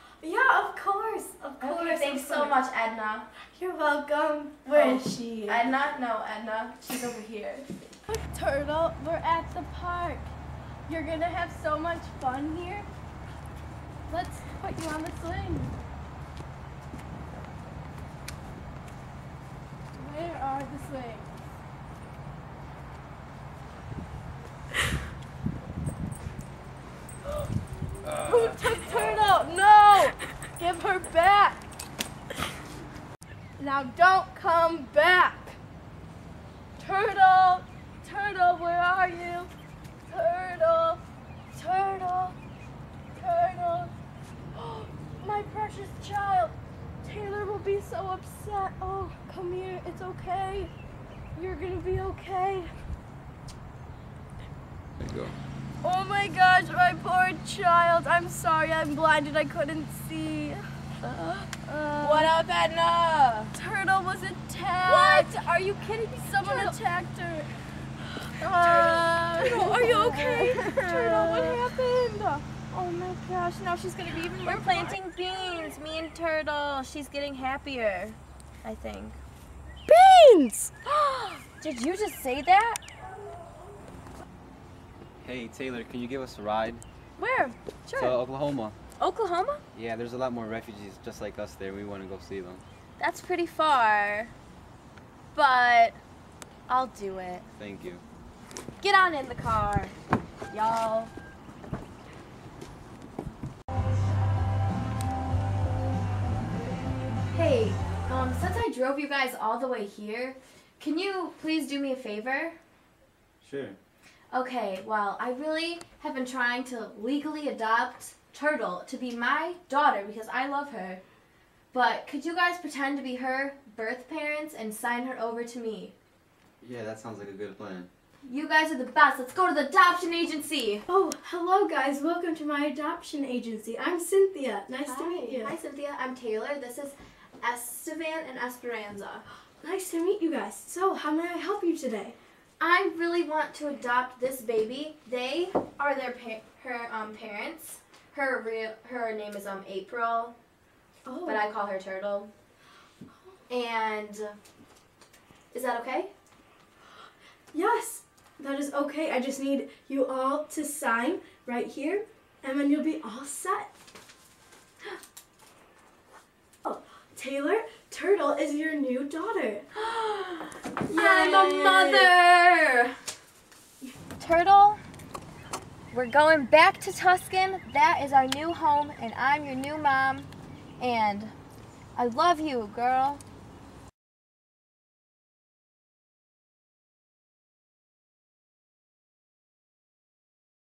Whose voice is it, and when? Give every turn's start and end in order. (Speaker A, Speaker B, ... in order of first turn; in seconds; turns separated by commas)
Speaker A: 0.2-2.5, Speaker B: 1.6-3.3, Speaker A: 3.5-5.6, Speaker B: 4.7-7.7, Speaker A: 8.1-10.3, Speaker A: 10.9-12.9, Speaker A: 14.1-15.7, Speaker A: 19.9-21.3, Speaker A: 28.1-31.7, Speaker A: 33.6-35.6, Speaker A: 36.8-39.5, Speaker A: 40.1-41.0, Speaker A: 41.5-42.4, Speaker A: 43.1-43.9, Speaker A: 44.5-50.7, Speaker A: 51.3-52.7, Speaker C: 55.0-55.3, Speaker A: 55.8-60.6, Speaker B: 61.0-61.4, Speaker A: 61.4-62.3, Speaker B: 62.0-63.5, Speaker A: 63.5-65.5, Speaker B: 64.8-66.8, Speaker A: 66.1-67.5, Speaker A: 68.2-72.4, Speaker B: 68.5-71.7, Speaker B: 72.7-79.2, Speaker A: 74.4-74.9, Speaker A: 79.9-80.7, Speaker B: 80.8-82.8, Speaker C: 85.2-86.8, Speaker B: 87.2-88.2, Speaker C: 87.9-88.8, Speaker B: 89.0-89.6, Speaker C: 89.7-92.6, Speaker B: 93.0-94.3, Speaker B: 95.3-96.0, Speaker B: 96.7-97.4, Speaker C: 97.6-98.0, Speaker B: 98.8-100.0, Speaker B: 100.5-101.1, Speaker B: 107.3-112.6, Speaker C: 113.4-113.8, Speaker B: 114.3-121.0, Speaker B: 121.7-125.9, Speaker C: 126.6-127.9, Speaker B: 128.2-130.8, Speaker A: 130.9-135.5, Speaker B: 134.9-139.2, Speaker A: 139.6-142.1, Speaker B: 142.6-150.3, Speaker A: 151.1-151.4, Speaker B: 151.2-152.3, Speaker B: 153.5-154.4, Speaker B: 155.5-156.1, Speaker A: 157.5-163.7, Speaker A: 166.6-169.6, Speaker B: 169.8-172.9, Speaker A: 170.9-172.1, Speaker B: 174.2-174.8, Speaker B: 175.9-181.3, Speaker B: 181.9-183.2